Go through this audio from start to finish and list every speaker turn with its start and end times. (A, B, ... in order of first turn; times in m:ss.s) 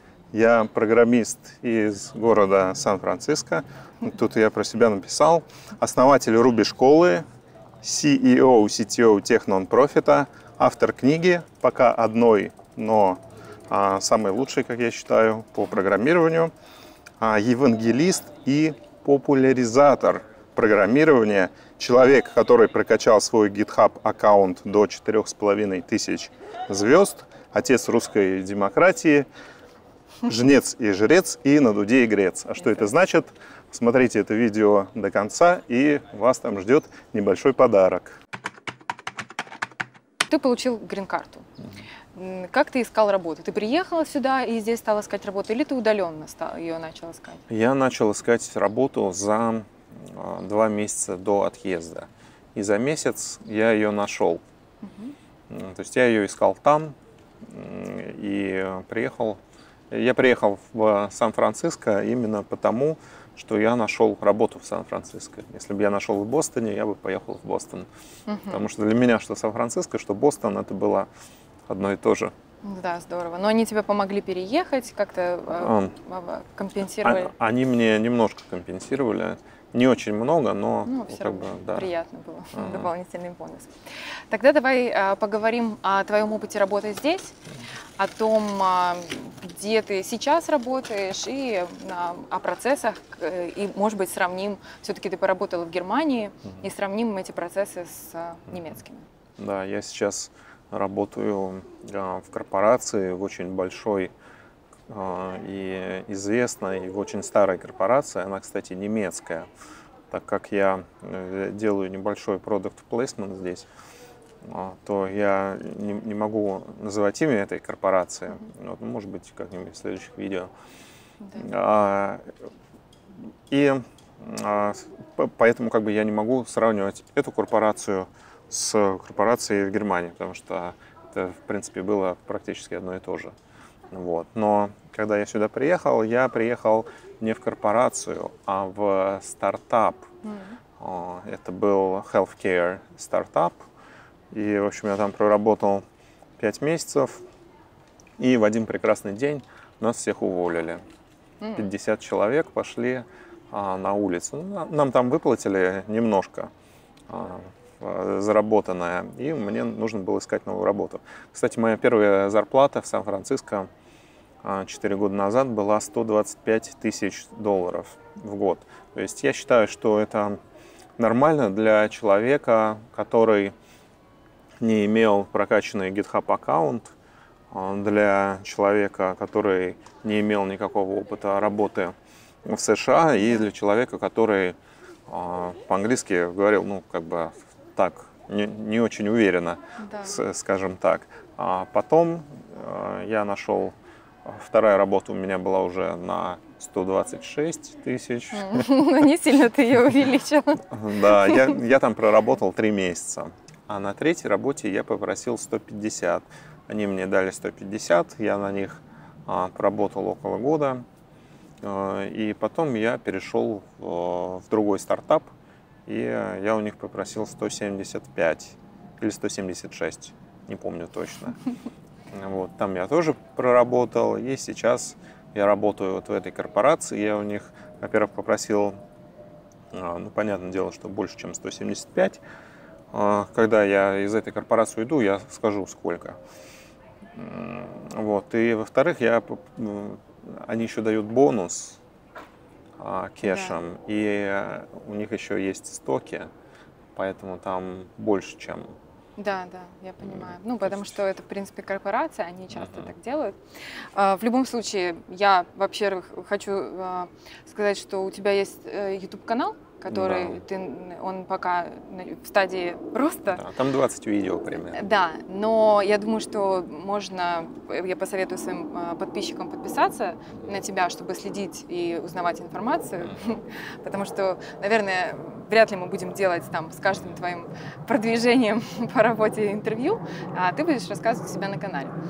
0:00.3-0:07.2 A
0:07.8-0:16.5 A
0:17.2-0:29.3 A
0:30.3-0:38.2 A
0:40.3-0:41.5 B
0:42.1-0:47.4 B
0:47.5-0:54.4 A
0:54.8-0:55.2 B
0:55.5-0:59.4 A
0:59.9-1:07.9 A
1:08.3-1:08.6 B
1:08.5-1:11.1 A
1:11.7-1:12.3 A
1:12.6-1:17.3 B
1:15.5-1:15.9 A
1:17.0-1:21.9 A
1:20.9-1:27.4 B
1:22.5-1:22.9 A
1:28.0-1:39.1 B
1:39.4-1:44.1 A
1:44.9-1:49.5 A
1:50.1-1:53.7 A
1:54.4-2:00.5 A
2:01.4-2:02.3 A
2:03.5-2:13.3 A
2:13.9-2:20.1 A
2:20.2-2:20.6 B
2:20.8-2:23.6 A
2:24.3-2:25.8 A
2:26.4-2:27.2 A
2:28.2-2:30.8 A
2:31.4-2:31.7 B
2:31.6-2:36.5 A
2:37.1-2:43.7 A
2:44.4-2:50.4 A
2:51.0-2:53.5 A
2:54.6-2:56.9 A
2:57.5-3:04.6 A
3:03.2-3:03.4 B
3:05.1-3:18.7 A
3:09.8-3:10.2 B
3:18.3-3:21.6 B
3:20.7-3:30.8 A
3:31.6-3:35.3 A
3:35.9-3:41.4 A
3:42.1-3:48.8 A
3:49.7-3:52.2 A
3:52.9-3:56.2 A
3:57.2-4:01.8 A
4:02.8-4:06.3 A
4:03.2-4:03.6 B
4:07.0-4:08.8 A
4:09.2-4:23.4 B
4:10.0-4:11.0 A
4:12.6-4:12.9 A
4:19.9-4:20.4 A
4:23.3-4:24.8 A
4:24.7-4:41.9 B